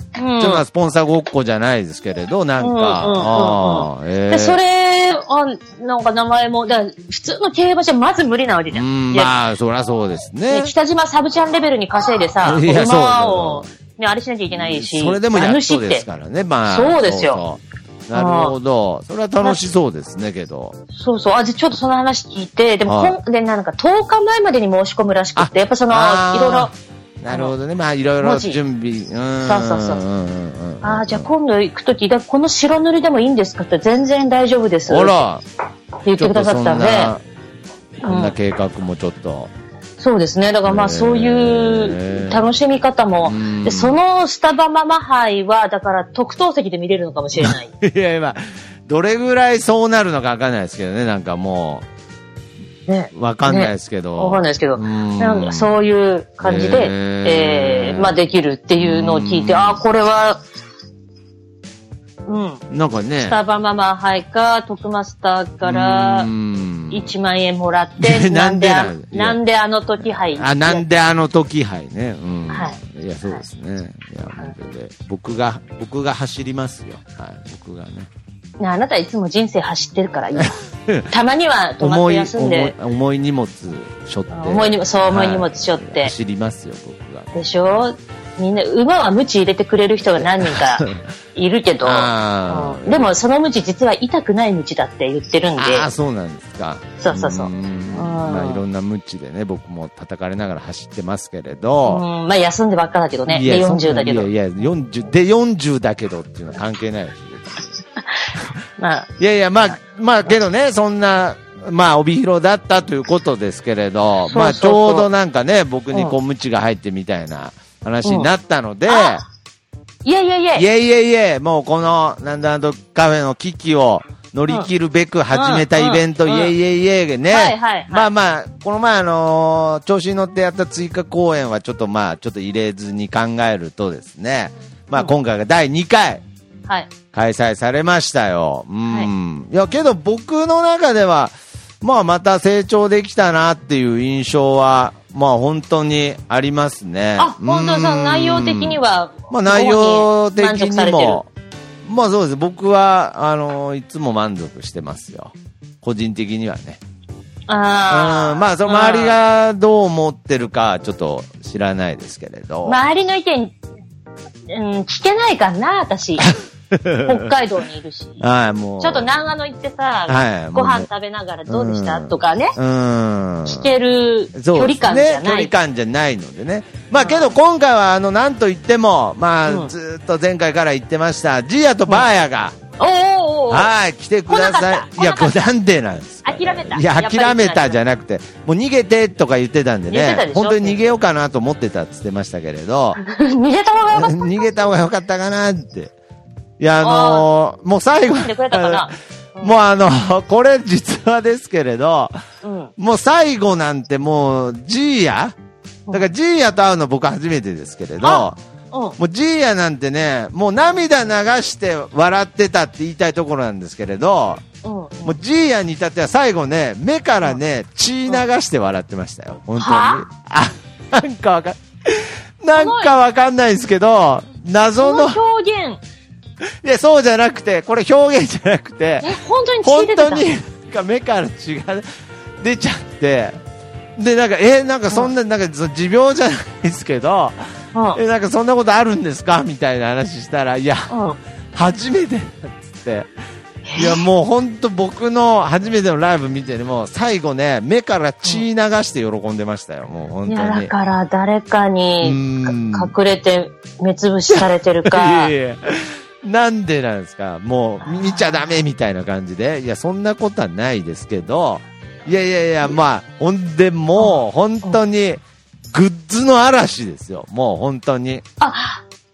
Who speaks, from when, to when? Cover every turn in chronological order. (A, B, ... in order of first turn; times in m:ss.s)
0:00.2-0:00.6 A
0:00.4-0:04.6 B
0:02.6-0:09.3 A
0:08.7-0:10.7 B
0:10.5-0:16.0 A
0:12.4-0:13.7 B
0:14.5-0:20.8 B
0:16.7-0:17.4 A
0:18.1-0:18.6 A
0:21.0-0:26.7 A
0:22.9-0:23.2 B
0:25.4-0:31.3 B
0:28.2-0:28.6 A
0:29.4-0:30.0 A
0:30.8-0:35.2 A
0:34.9-0:35.4 B
0:36.0-0:37.1 A
0:36.2-0:37.2 B
0:38.0-0:38.4 A
0:38.0-0:39.5 B
0:40.0-0:47.7 A
0:40.7-0:42.5 B
0:43.2-0:44.0 B
0:47.4-0:51.8 B
0:52.9-1:00.4 A
0:53.1-0:55.7 B
0:56.4-0:58.2 B
0:58.8-0:59.8 B
1:02.3-1:02.6 A
1:02.7-1:03.4 B
1:03.2-1:06.3 A
1:05.6-1:07.1 B
1:06.9-1:10.9 A
1:08.0-1:09.4 B
1:10.0-1:18.1 B
1:12.5-1:13.4 A
1:18.6-1:20.6 A
1:20.4-1:21.1 B
1:21.1-1:22.8 A
1:21.8-1:27.3 B
1:24.3-1:26.1 A
1:27.3-1:35.9 A
1:30.2-1:31.0 B
1:31.8-1:33.1 B
1:35.6-1:42.0 B
1:37.0-1:38.6 A
1:41.9-1:44.3 A
1:43.3-1:47.7 B
1:48.0-1:49.1 A
1:49.2-1:59.2 B
1:54.3-1:55.1 A
1:58.9-1:59.2 A
2:00.0-2:00.6 A
2:00.6-2:16.2 B
2:05.3-2:06.5 A
2:07.3-2:08.1 A
2:17.1-2:28.8 B
2:27.2-2:31.2 A
2:29.3-2:31.3 B
2:31.8-2:36.8 B
2:37.5-2:39.2 A
2:37.9-2:42.8 B
2:42.6-2:43.5 A
2:44.5-2:46.3 A
2:46.2-2:47.3 B
2:47.0-2:48.2 A
2:48.2-2:49.1 B
2:48.8-2:52.6 A
2:50.1-2:50.9 B
2:51.5-2:53.7 B
2:53.5-2:55.5 A
2:54.4-3:02.6 B
2:57.0-2:57.3 A
3:02.8-3:03.7 A
3:03.5-3:13.0 B
3:04.3-3:05.4 A
3:06.2-3:07.8 A
3:09.9-3:10.8 A
3:13.0-3:14.4 A
3:13.9-3:15.9 B
3:16.6-3:22.2 B
3:16.8-3:17.3 A
3:18.1-3:19.6 A
3:22.4-3:22.7 A
3:22.8-3:25.4 B
3:25.9-3:28.4 B
3:28.0-3:29.0 A
3:29.0-3:34.4 B
3:34.6-3:35.2 A
3:35.0-3:45.2 B
3:39.6-3:40.1 A
3:42.5-3:42.9 A
3:44.8-3:45.8 A
3:46.6-3:51.8 B
3:49.0-3:50.3 A
3:52.4-3:53.4 B
3:54.0-3:57.4 B
3:57.7-3:58.0 A
3:58.0-4:00.9 B
4:00.9-4:01.2 A
4:01.5-4:03.1 B
4:03.7-4:04.0 A
4:03.8-4:10.7 B
4:10.3-4:15.3 A
4:12.0-4:12.9 B
4:14.3-4:28.2 B
4:17.8-4:18.5 A
4:24.0-4:24.8 A
4:28.4-4:28.8 A